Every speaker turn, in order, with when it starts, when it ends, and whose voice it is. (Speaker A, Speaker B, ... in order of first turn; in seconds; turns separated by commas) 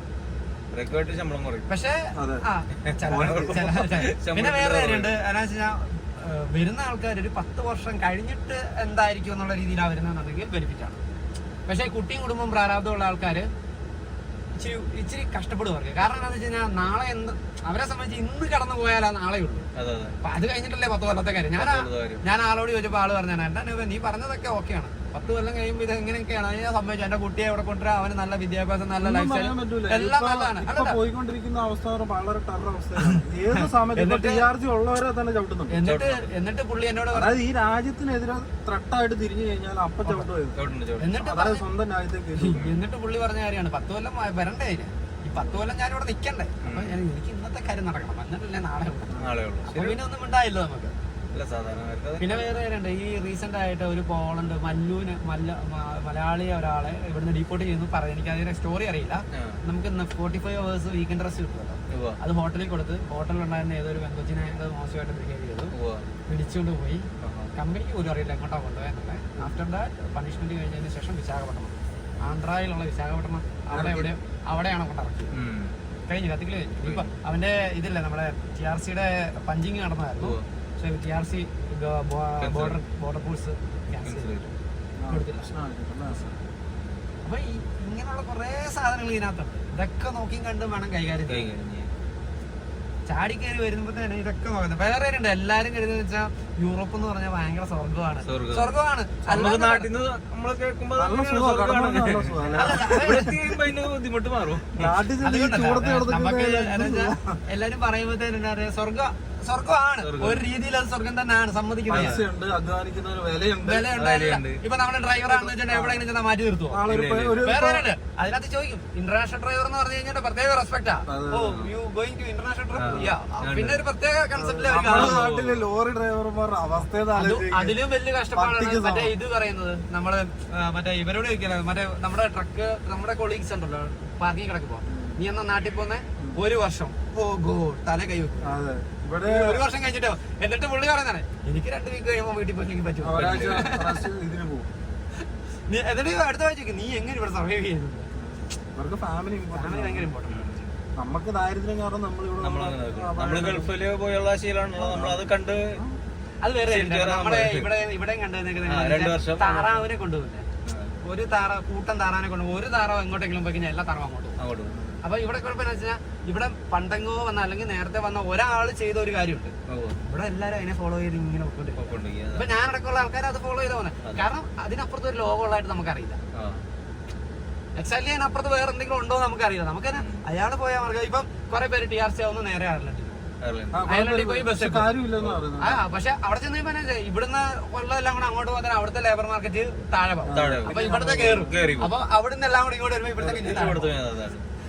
Speaker A: 0.7-1.7, Speaker B: 1.7-11.0, Speaker C: 2.2-2.4, Speaker A: 2.9-5.2, Speaker C: 3.1-3.7, Speaker B: 11.7-13.5, Speaker B: 14.6-19.7, Speaker A: 19.8-20.1, Speaker B: 20.2-31.0, Speaker A: 21.6-22.2, Speaker C: 29.0-35.8, Speaker B: 34.0-34.4, Speaker B: 35.7-37.4, Speaker A: 35.8-36.3, Speaker C: 37.1-40.6, Speaker A: 40.6-41.2, Speaker B: 41.0-41.6, Speaker C: 41.1-42.7, Speaker B: 42.4-50.9, Speaker A: 42.5-42.8, Speaker C: 45.3-45.7, Speaker A: 46.6-47.0, Speaker A: 49.2-50.0, Speaker A: 51.3-52.5, Speaker B: 52.2-65.7, Speaker A: 59.3-59.6, Speaker A: 61.9-62.2, Speaker A: 65.7-66.1, Speaker B: 66.3-75.3, Speaker A: 67.2-67.5, Speaker C: 73.7-74.1, Speaker A: 75.3-75.7, Speaker B: 76.1-84.4, Speaker A: 76.8-77.1, Speaker A: 80.2-80.5, Speaker A: 82.4-82.8, Speaker A: 84.0-84.5, Speaker C: 85.0-86.4, Speaker B: 85.1-85.5, Speaker B: 87.2-91.5, Speaker A: 91.3-91.9, Speaker B: 93.1-99.9, Speaker A: 98.2-98.7, Speaker A: 99.2-104.9, Speaker C: 101.0-103.6, Speaker B: 102.6-103.3, Speaker C: 104.7-107.4, Speaker B: 105.2-112.2, Speaker A: 110.0-110.5, Speaker C: 111.9-113.9, Speaker A: 111.9-112.2, Speaker B: 113.6-116.8, Speaker A: 114.0-114.6, Speaker C: 115.2-116.0, Speaker C: 116.7-117.9, Speaker A: 116.9-117.4, Speaker B: 117.4-125.2, Speaker C: 121.1-121.7, Speaker C: 122.8-123.1, Speaker A: 122.8-123.8, Speaker C: 124.3-127.8, Speaker A: 124.8-125.7, Speaker B: 127.2-138.6, Speaker C: 128.3-129.2, Speaker C: 134.9-135.2, Speaker C: 138.4-139.6, Speaker B: 139.2-144.0, Speaker C: 143.0-144.7, Speaker A: 143.1-143.7, Speaker B: 145.7-148.1, Speaker C: 148.2-150.1, Speaker B: 149.5-150.7, Speaker A: 150.3-150.7, Speaker C: 151.0-153.7, Speaker A: 152.4-155.8, Speaker C: 154.8-156.0, Speaker B: 156.4-160.5, Speaker A: 156.7-157.7, Speaker A: 158.7-159.9, Speaker A: 160.7-160.9, Speaker B: 161.0-164.4, Speaker A: 164.4-164.8, Speaker C: 164.7-165.0, Speaker B: 165.0-176.2, Speaker A: 169.7-170.0, Speaker A: 171.8-172.5, Speaker A: 176.3-176.6, Speaker B: 177.8-183.3, Speaker A: 179.9-180.2, Speaker A: 183.4-183.8, Speaker C: 183.7-185.8, Speaker B: 183.9-185.0, Speaker B: 185.6-193.9, Speaker C: 190.2-191.9, Speaker A: 190.3-191.9, Speaker A: 193.2-194.4